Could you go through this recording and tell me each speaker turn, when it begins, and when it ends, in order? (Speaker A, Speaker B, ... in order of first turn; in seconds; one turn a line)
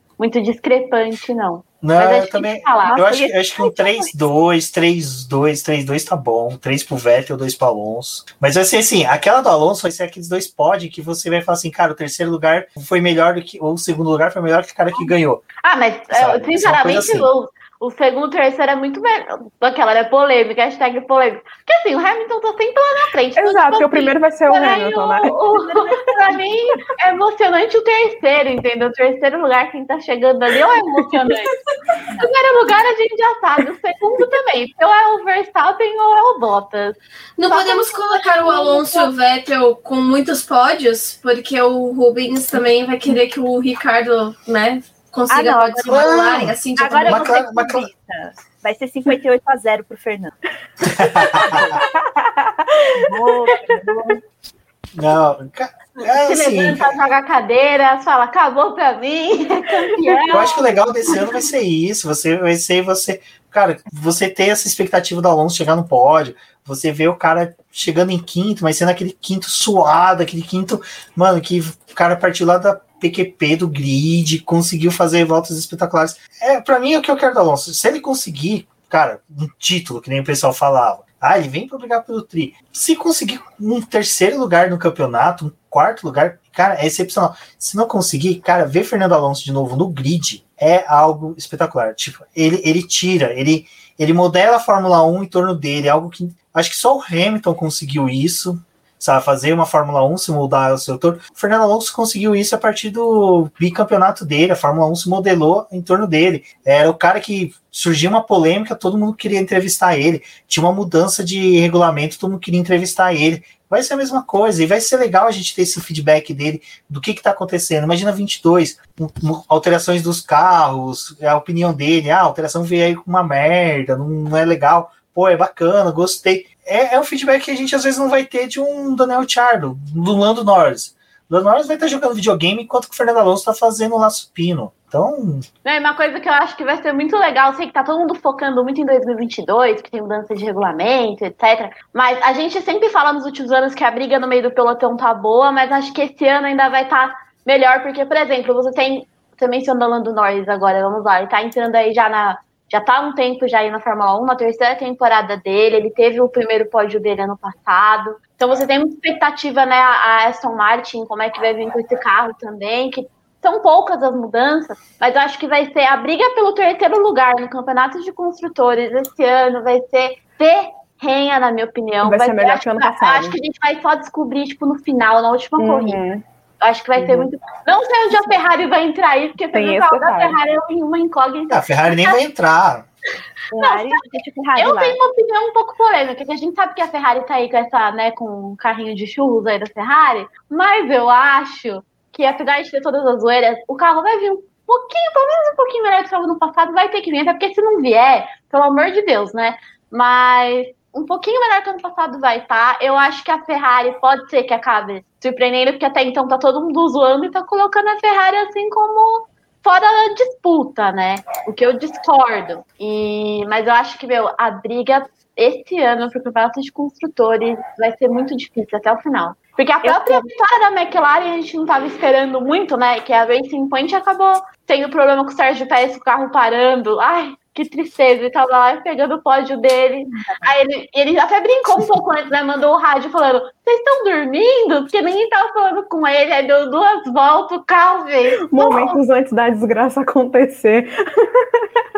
Speaker A: 0.2-3.0
Speaker B: 1.8-15.5
Speaker C: 2.8-4.3
Speaker A: 15.6-31.6
Speaker B: 16.1-17.3
Speaker D: 23.3-25.3
Speaker C: 25.5-26.3
Speaker A: 32.1-39.1
Speaker E: 37.4-47.3
Speaker C: 45.3-46.2
Speaker B: 45.9-47.9
Speaker C: 46.8-50.3
Speaker B: 51.0-51.8
Speaker D: 51.3-54.1
Speaker C: 51.4-51.7
Speaker C: 53.1-54.2
Speaker B: 54.9-56.9
Speaker A: 56.0-61.1
Speaker B: 60.3-135.4
Speaker A: 135.6-176.0
Speaker D: 172.0-173.4
Speaker D: 175.6-176.2
Speaker A: 176.6-182.2
Speaker D: 176.9-177.3
Speaker D: 179.5-180.3
Speaker B: 181.5-182.9
Speaker C: 183.5-185.0
Speaker A: 183.6-184.0
Speaker A: 184.6-239.0
Speaker C: 219.8-220.2
Speaker C: 230.1-230.5
Speaker D: 238.3-241.7